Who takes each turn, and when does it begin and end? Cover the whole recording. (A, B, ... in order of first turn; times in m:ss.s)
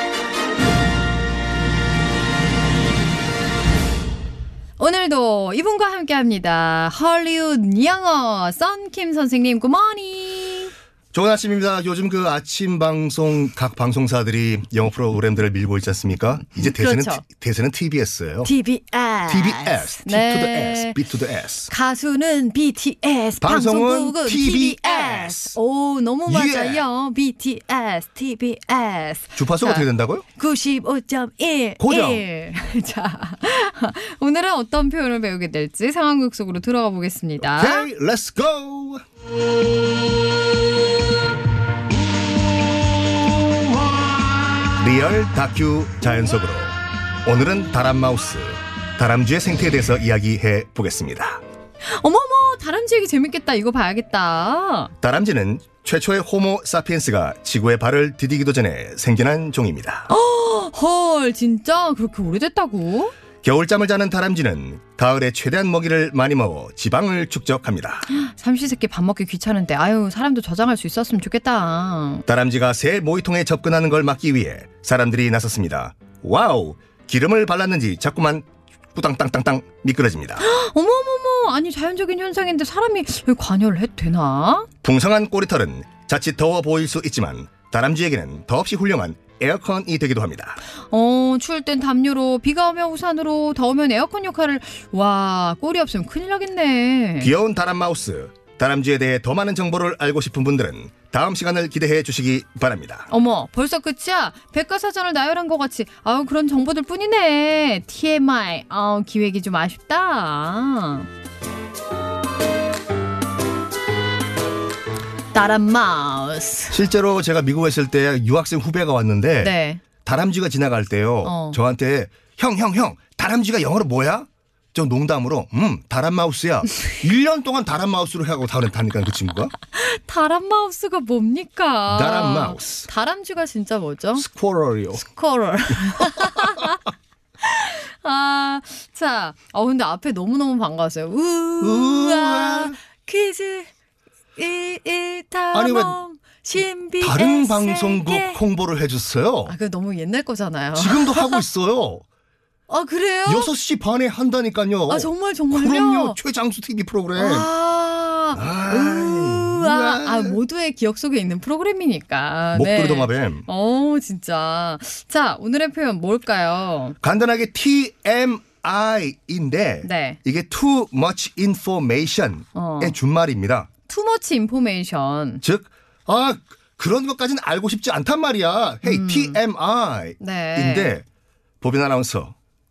0:04.8-0:10.7 A
0:11.1-0:18.5 B
0:16.6-0:17.2 A
0:18.4-0:21.0 A
0:19.3-0:21.7 B
0:21.7-0:37.9 A
0:23.4-0:25.6 B
0:26.3-0:26.8 B
0:29.4-0:30.2 B
0:31.8-0:32.2 B
0:37.4-0:39.0 B
0:44.7-0:51.4 B
0:51.8-0:54.9 A
0:55.0-1:00.1 B
1:00.1-1:03.1 A
1:03.4-1:08.1 B
1:08.1-1:12.2 A
1:12.3-1:20.4 B
1:20.4-1:24.7 A
1:24.8-1:30.6 B
1:30.9-1:37.3 A
1:37.2-1:43.1 B
1:43.1-1:51.1 A
1:55.3-1:56.8 A
1:56.7-2:09.5 B
1:59.4-1:59.8 A
2:01.2-2:01.6 A
2:09.7-2:14.2 A
2:11.9-2:12.9 B
2:14.2-2:15.0 B
2:15.0-2:16.8 A
2:17.4-2:23.7 A
2:21.6-2:22.8 B
2:24.4-2:28.4 A
2:25.5-2:26.0 B
2:27.0-2:29.6 B
2:29.5-2:31.4 A
2:30.8-2:32.0 B
2:32.7-2:33.5 A
2:33.3-2:37.5 B
2:34.9-2:36.2 A
2:37.2-2:47.0 A
2:38.4-2:40.4 B
2:42.5-2:43.5 B
2:47.0-2:53.7 B
2:49.8-2:50.2 A
2:52.6-2:53.0 A
2:53.9-2:55.4 A
2:55.4-3:01.0 B
2:58.8-2:59.4 A
3:00.2-3:01.0 A
3:01.6-3:02.4 B